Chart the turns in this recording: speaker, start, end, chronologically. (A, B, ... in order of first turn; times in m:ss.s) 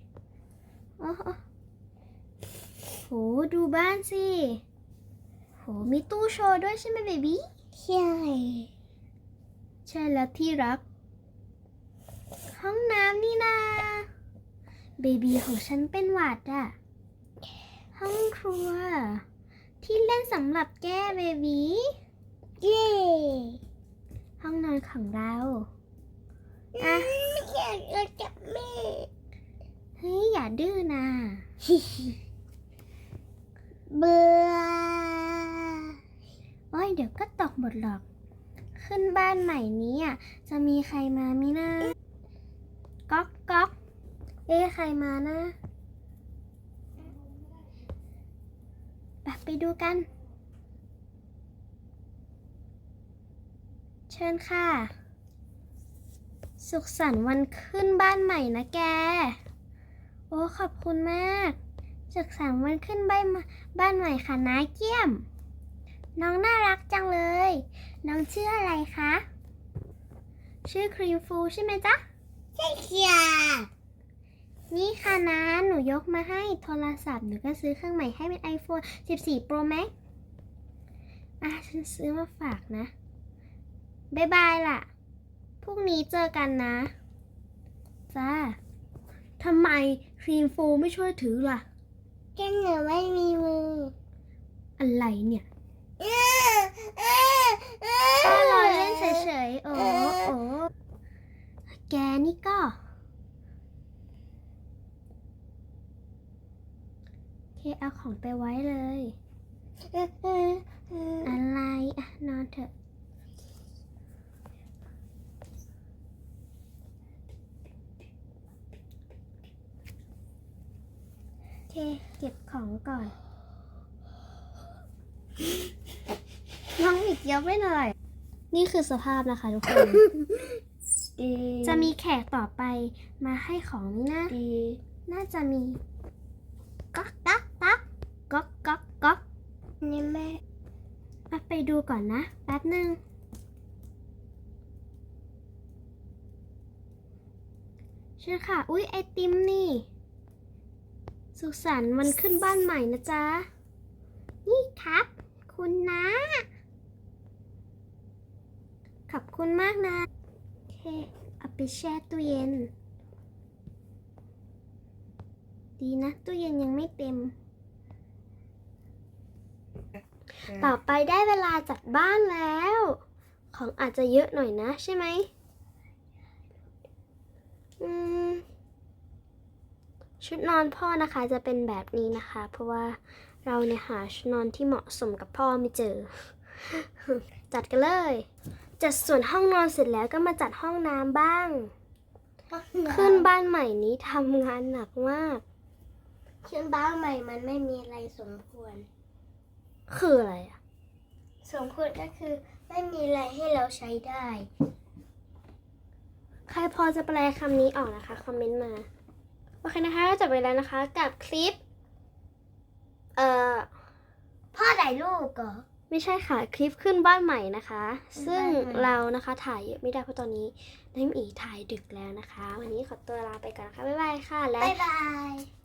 0:01.0-0:01.4 A
0:03.0-0:04.6 A
0:05.6-0:07.5 A
0:07.8-0:08.7 B
0:09.9-0:10.8 A
0:12.5-0:14.1 A
0:15.0-0:16.8 A
0:18.0-0:19.2 A
0:19.8-0:22.0 A
0:22.6-0:23.6 B
0:24.4-0:25.7 A
0:26.8-0:29.1 B
0:26.8-0:27.1 A
0:30.0-0:31.4 A
0:33.9-0:36.0 B
0:36.7-0:38.0 A
0:38.8-0:42.0 A
0:43.1-0:43.7 A
0:44.5-0:45.5 A
0:49.2-0:50.1 A
0:54.1-0:54.9 A
0:56.6-0:59.4 A
1:00.3-1:01.6 A
1:02.1-1:05.2 A
1:06.2-1:09.2 A
1:10.6-1:12.0 A
1:12.6-1:13.7 B
1:14.7-1:19.9 A
1:21.4-1:22.9 A
1:24.1-1:24.9 A
1:25.6-1:26.9 A
1:28.1-1:28.6 A
1:29.4-1:31.6 A
1:32.4-1:33.9 B
1:34.8-1:35.5 A
1:36.0-1:40.3 B
1:38.2-1:40.7 A
1:41.7-1:42.8 A
1:47.6-1:49.2 A
1:49.9-1:51.3 B
1:51.2-1:52.7 A
2:01.7-2:03.1 A
2:06.8-2:07.9 A
2:08.5-2:10.2 A
2:11.2-2:11.9 B
2:11.6-2:14.4 A
2:14.3-2:14.8 B
2:15.1-2:15.8 A
2:17.0-2:17.6 B
2:17.0-2:17.8 A
2:18.3-2:19.2 A
2:19.8-2:20.4 B
2:21.3-2:23.0 A
2:28.2-2:29.9 A
2:31.4-2:33.5 A
2:34.5-2:36.4 A
2:39.1-2:40.1 A
2:40.7-2:42.7 A
2:45.8-2:47.3 A
2:50.5-2:53.0 A
2:53.5-2:55.3 A
2:57.8-2:58.4 A
3:00.2-3:08.3 A
3:08.8-3:11.7 A
3:12.5-3:13.3 B
3:12.9-3:15.4 A
3:16.4-3:18.9 B
3:19.9-3:20.6 A
3:21.4-3:24.5 B
3:26.5-3:28.9 A
3:29.6-3:31.6 A
3:33.2-3:33.7 A
3:34.5-3:35.6 B
3:35.9-3:44.8 A
3:38.2-3:38.9 B
3:44.6-3:45.5 B